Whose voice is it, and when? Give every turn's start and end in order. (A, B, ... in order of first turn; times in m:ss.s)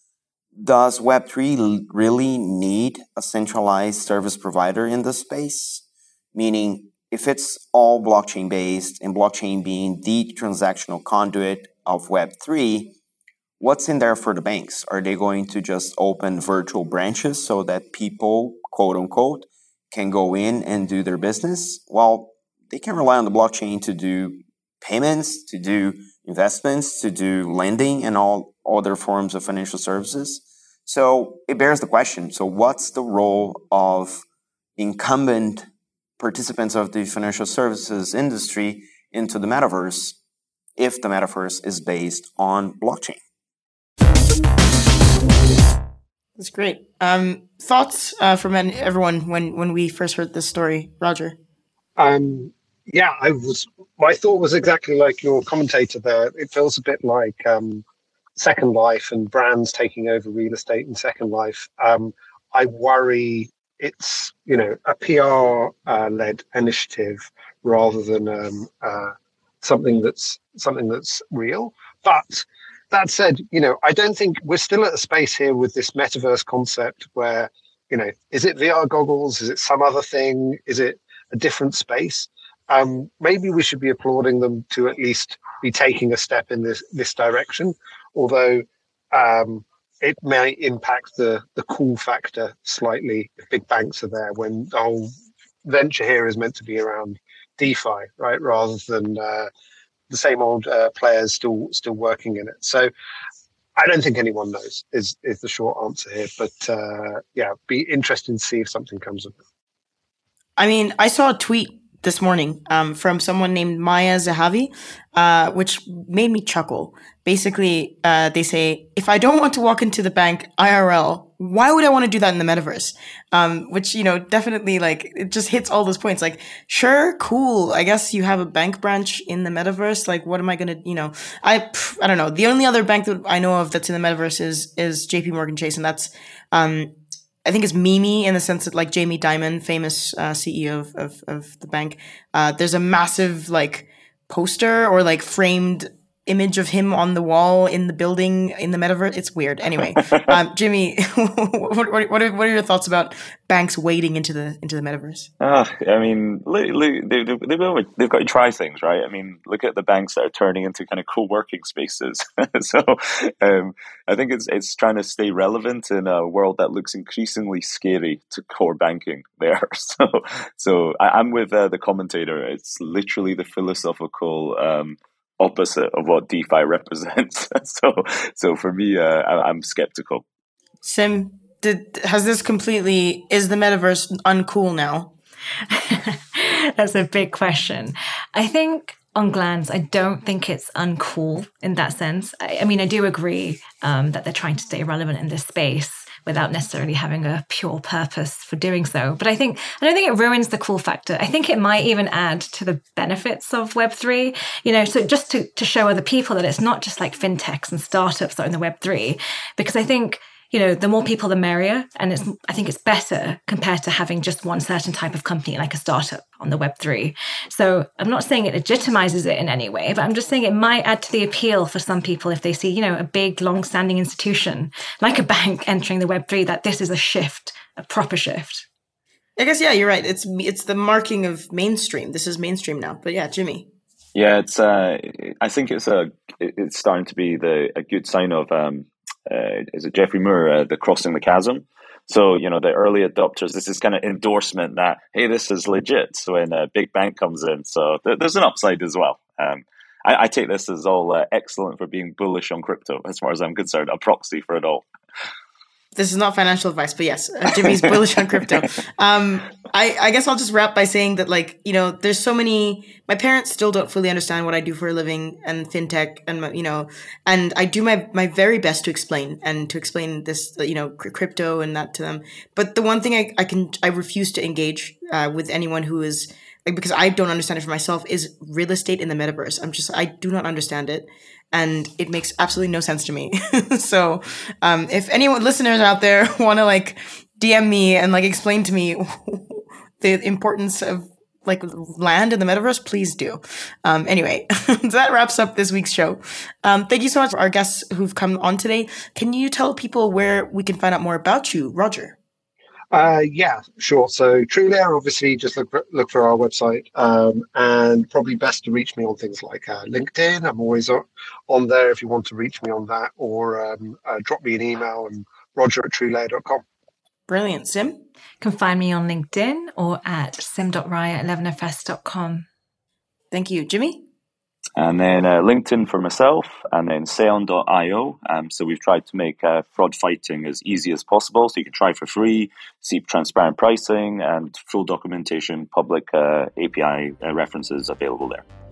0:00.6-0:13.0 A
0:13.6-0:34.2 A
0:34.8-0:35.7 A
0:36.2-0:40.2 A
0:40.8-0:43.2 A
0:46.4-0:51.4 B
0:52.0-0:57.8 C
0:58.4-1:35.1 C
1:35.6-1:39.5 C
1:40.1-1:42.9 C
1:43.8-1:49.4 C
1:50.6-2:16.9 B
2:17.4-2:35.3 B
2:35.4-3:00.2 D
3:00.8-3:05.1 B
3:05.7-3:48.7 E
3:49.4-3:53.7 B
3:54.2-4:14.8 D
4:16.0-5:02.2 B
5:02.9-5:16.6 C
5:17.3-5:18.0 B
5:18.4-5:22.5 E
5:23.3-5:24.0 B
5:24.8-5:38.4 D